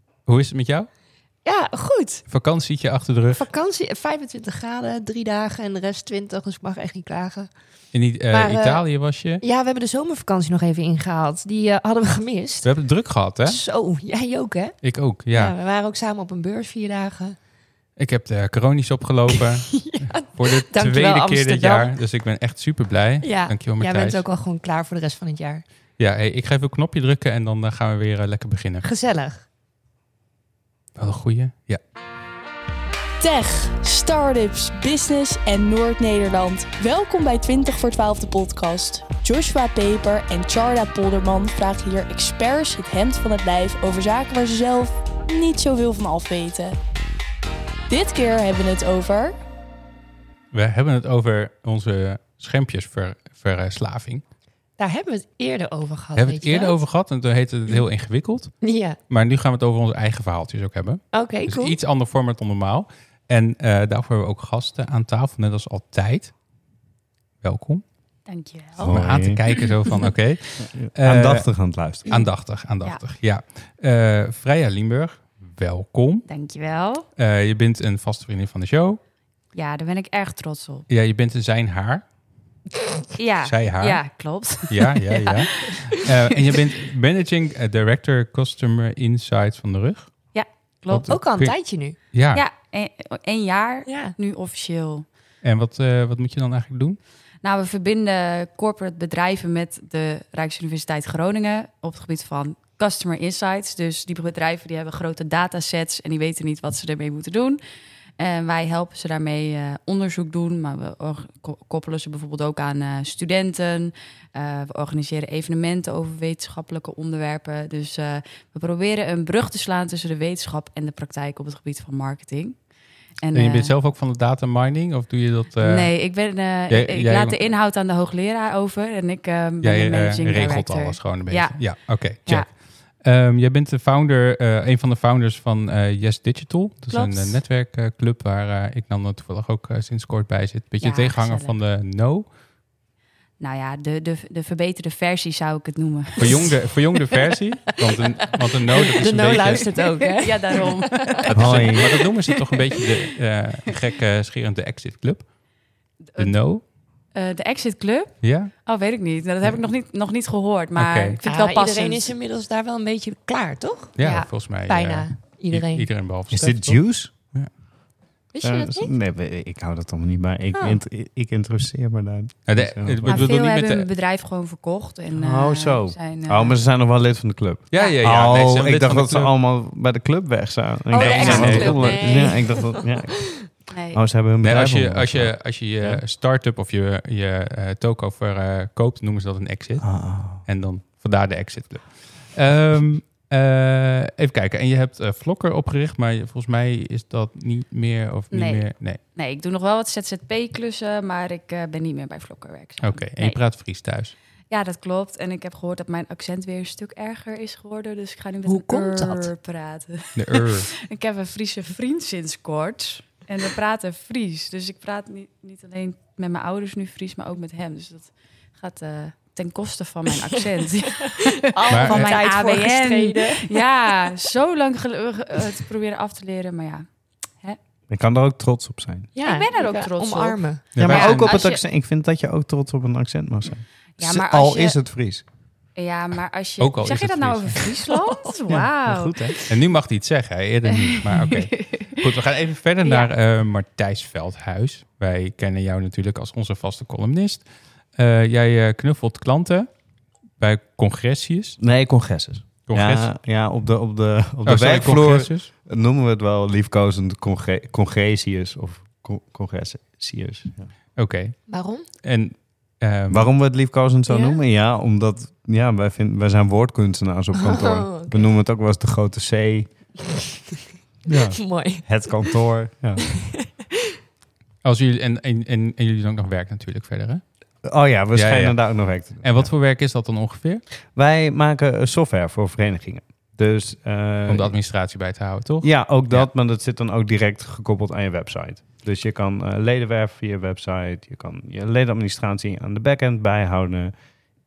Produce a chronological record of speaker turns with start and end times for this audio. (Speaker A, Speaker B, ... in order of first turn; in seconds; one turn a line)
Speaker A: 0.3-0.9
Speaker B: 1.4-2.2
Speaker A: 2.3-3.5
Speaker B: 3.3-7.5
Speaker A: 7.9-9.4
Speaker B: 8.3-8.8
Speaker B: 9.4-12.7
Speaker A: 12.6-13.6
Speaker B: 13.4-14.8
Speaker A: 14.8-15.5
Speaker B: 15.3-17.4
Speaker A: 18.0-24.2
Speaker B: 19.3-21.9
Speaker B: 23.2-25.6
Speaker A: 26.0-28.9
Speaker B: 28.8-29.4
Speaker A: 31.0-31.8
Speaker C: 33.2-46.8
Speaker C: 47.9-49.4
Speaker A: 50.5-54.2
Speaker B: 54.8-56.8
Speaker A: 56.2-58.5
Speaker B: 58.6-59.0
Speaker A: 59.1-66.3
Speaker B: 61.1-61.8
Speaker A: 67.4-67.8
Speaker D: 68.3-70.1
Speaker E: 68.8-69.4
Speaker A: 68.8-76.3
Speaker E: 70.6-72.1
Speaker D: 76.3-77.1
Speaker A: 77.2-79.0
Speaker D: 79.5-80.9
Speaker A: 80.9-82.0
Speaker D: 83.2-86.5
Speaker A: 83.4-84.0
Speaker A: 84.7-90.1
Speaker D: 90.3-91.1
Speaker A: 90.9-92.4
Speaker B: 91.1-92.0
Speaker D: 92.3-95.1
Speaker B: 93.9-94.2
Speaker A: 95.4-97.0
Speaker D: 97.4-107.6
Speaker D: 108.2-122.6
Speaker D: 123.2-123.7
Speaker A: 123.3-126.0
Speaker D: 125.6-132.5
Speaker A: 126.7-127.5
Speaker A: 129.6-142.3
Speaker D: 136.9-137.4
Speaker D: 140.8-141.6
Speaker D: 143.4-147.0
Speaker A: 146.2-149.7
Speaker B: 148.8-151.3
Speaker D: 149.4-151.9
Speaker A: 151.3-155.3
Speaker E: 151.4-151.8
Speaker D: 156.0-156.4
Speaker A: 156.2-156.6
Speaker D: 157.1-162.1
Speaker A: 158.2-158.5
Speaker A: 160.8-161.2
Speaker B: 161.3-165.9
Speaker A: 164.0-167.5
Speaker D: 164.0-164.3
Speaker E: 166.3-167.1
Speaker B: 168.3-168.9
Speaker E: 168.4-173.3
Speaker B: 170.5-170.8
Speaker A: 172.5-173.9
Speaker D: 173.1-176.6
Speaker E: 175.1-186.0
Speaker A: 177.7-179.3
Speaker D: 180.9-182.4
Speaker B: 180.9-183.4
Speaker A: 181.0-182.0
Speaker D: 183.7-184.0
Speaker A: 184.4-199.0
Speaker E: 189.8-190.4
Speaker D: 198.3-203.4
Speaker A: 202.8-204.1
Speaker D: 204.5-226.9
Speaker B: 208.4-209.3
Speaker A: 210.2-210.7
Speaker B: 221.1-223.6
Speaker A: 221.7-222.1
Speaker E: 227.9-229.1
Speaker B: 229.2-230.7
Speaker D: 229.2-231.6
Speaker A: 230.8-231.4
Speaker E: 230.8-235.2
Speaker D: 234.0-234.8
Speaker D: 235.8-239.4
Speaker A: 236.6-237.7
Speaker E: 238.5-239.4
Speaker A: 239.5-249.7
Speaker D: 240.7-241.9
Speaker D: 242.8-243.1
Speaker A: 250.4-251.6
Speaker E: 251.6-260.7
Speaker A: 252.7-253.1
Speaker A: 254.4-255.5
Speaker A: 261.0-263.3
Speaker B: 261.5-261.9
Speaker E: 263.1-269.7
Speaker B: 264.1-264.4
Speaker B: 267.3-268.3
Speaker E: 271.1-273.1
Speaker B: 271.2-272.4
Speaker B: 273.0-273.9
Speaker A: 274.6-277.2
Speaker E: 277.6-279.5
Speaker A: 278.1-280.6
Speaker E: 280.9-284.5
Speaker A: 284.3-286.3
Speaker E: 285.6-293.9